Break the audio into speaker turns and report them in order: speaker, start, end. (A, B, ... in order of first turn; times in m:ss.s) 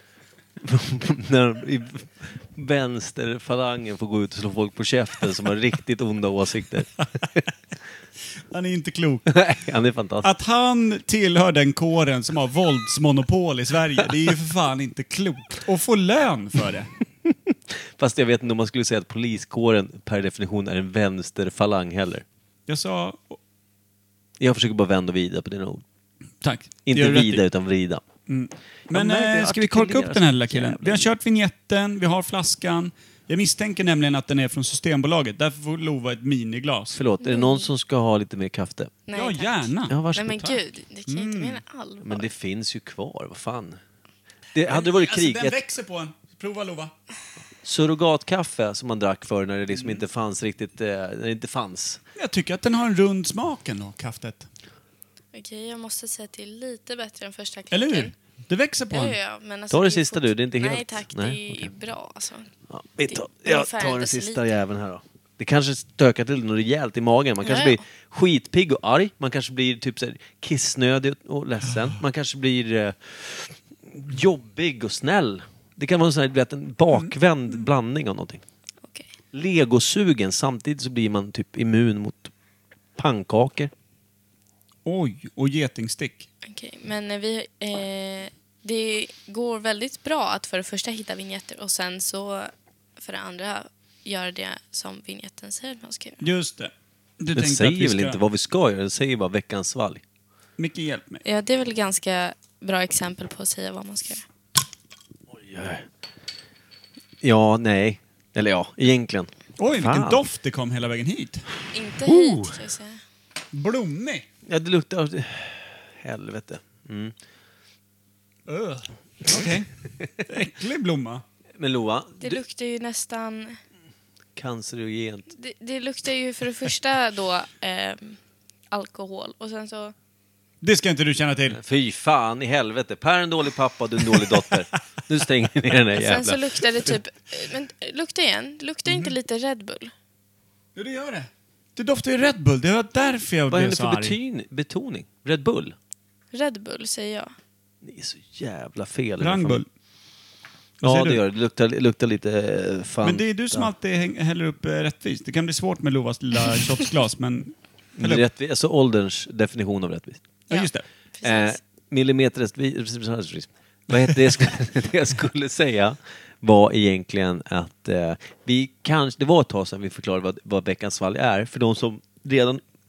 0:00.6-0:07.4 A
0:08.5-0:09.4 B
0:09.3-0:10.3 A
0:10.2-0:16.9 B
0:17.3-0:22.2 A
0:22.7-0:23.4 B
0:24.4-0:25.8 A
0:26.4-0:27.4 B
0:26.8-0:28.0 A
0:28.3-0:37.0 B
0:28.9-0:31.1 A
0:36.9-0:38.9 A
0:37.2-0:37.7 C
0:39.1-0:42.3 C
0:39.1-0:40.5 B
0:39.9-0:40.5 A
0:41.1-0:41.6 B
0:42.0-0:43.8 A
0:44.5-0:45.6 A
0:44.6-0:46.9 B
0:47.6-0:52.0 A
0:52.2-0:54.5 B
0:55.3-0:58.1 C
0:57.7-0:59.2 B
0:58.9-1:02.5 C
0:59.7-1:01.7 A
1:02.7-1:18.4 A
1:03.1-1:04.4 C
1:07.4-1:07.8 C
1:19.3-1:22.3 A
1:23.0-1:23.7 A
1:24.8-1:26.3 B
1:26.4-1:36.2 C
1:36.2-1:38.2 B
1:37.4-1:40.0 A
1:40.6-1:41.2 B
1:41.2-1:44.2 C
1:45.3-1:45.9 A
1:47.2-1:50.2 A
1:49.6-1:51.4 B
1:51.7-1:53.0 C
1:52.0-1:52.6 A
1:53.5-1:54.2 B
1:54.4-1:57.1 A
1:58.5-1:59.7 B
2:00.2-2:01.2 B
2:01.6-2:02.4 A
2:02.2-2:03.6 C
2:04.4-2:05.3 A
2:05.3-2:08.2 C
2:08.7-2:09.9 C
2:10.6-2:11.6 B
2:11.5-2:16.9 A
2:15.9-2:19.9 C
2:20.8-2:24.2 B
2:23.5-2:25.7 A
2:26.3-2:27.3 C
2:27.8-2:29.6 A
2:29.2-2:29.7 B
2:30.8-2:31.2 B
2:30.8-2:33.7 A
2:33.0-2:38.2 B
2:38.0-2:40.2 A
2:40.5-2:40.8 B
2:40.5-2:41.6 C
2:41.2-2:52.6 A